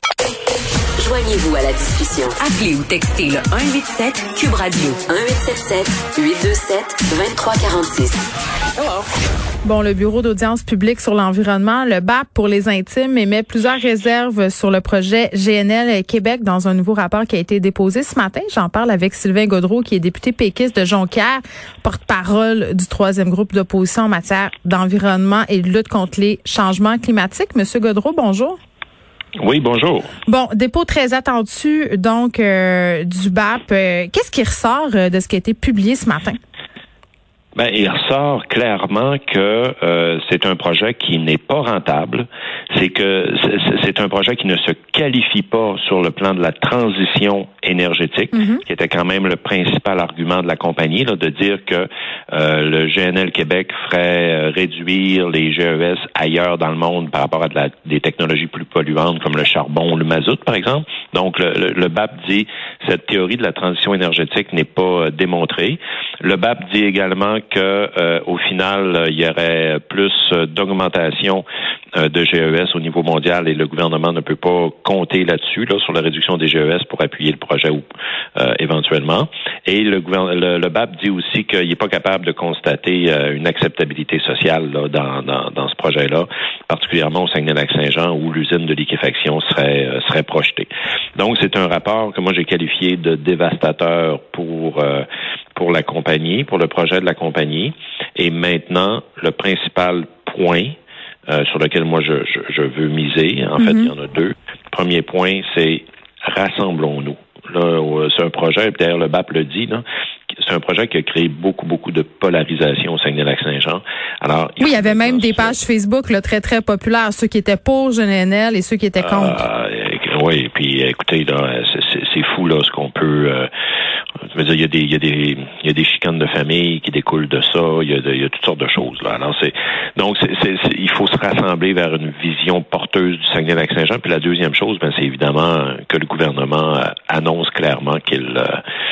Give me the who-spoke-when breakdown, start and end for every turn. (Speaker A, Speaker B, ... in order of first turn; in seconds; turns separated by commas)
Speaker A: 1.0-8.2, Speaker A: 8.8-9.0, Speaker B: 9.6-28.6, Speaker C: 29.4-30.1, Speaker B: 30.2-36.4, Speaker C: 37.5-71.4, Speaker B: 48.3-48.6, Speaker C: 72.0-77.8, Speaker C: 78.4-95.0, Speaker C: 95.5-100.8, Speaker C: 101.3-115.6, Speaker B: 103.6-103.9, Speaker B: 114.6-119.4, Speaker C: 119.0-123.5, Speaker C: 124.3-138.6